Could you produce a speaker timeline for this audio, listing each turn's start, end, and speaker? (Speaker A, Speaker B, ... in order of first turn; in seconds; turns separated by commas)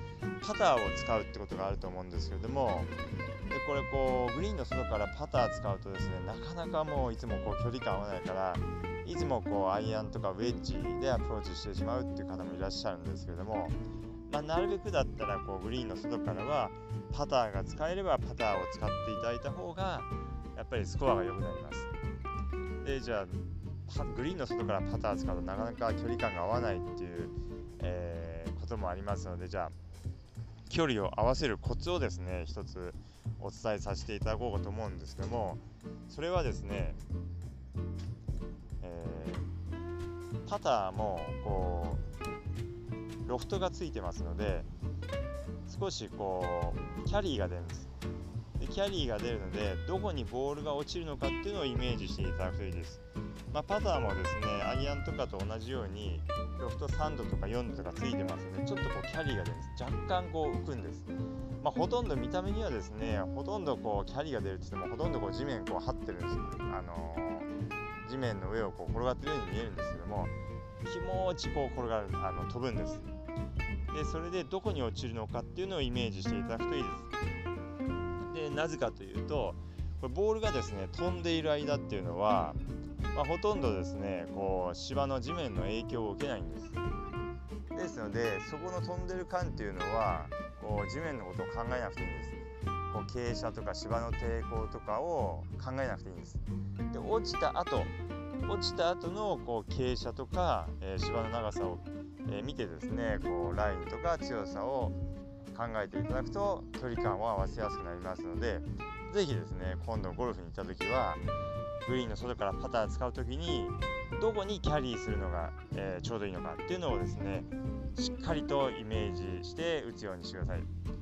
Speaker A: 0.4-2.9, Speaker A: 3.5-13.8, Speaker A: 14.3-21.9, Speaker A: 22.8-29.8, Speaker A: 30.7-37.0, Speaker A: 38.8-39.5, Speaker A: 40.5-42.0, Speaker A: 43.2-44.7, Speaker A: 45.7-47.9, Speaker A: 48.6-61.1, Speaker A: 61.6-67.5, Speaker A: 68.0-70.3, Speaker A: 70.8-73.1, Speaker A: 73.9-77.1, Speaker A: 78.2-82.6, Speaker A: 83.1-86.8, Speaker A: 87.7-92.4, Speaker A: 92.9-97.9, Speaker A: 98.5-105.0, Speaker A: 105.5-111.2, Speaker A: 111.8-120.7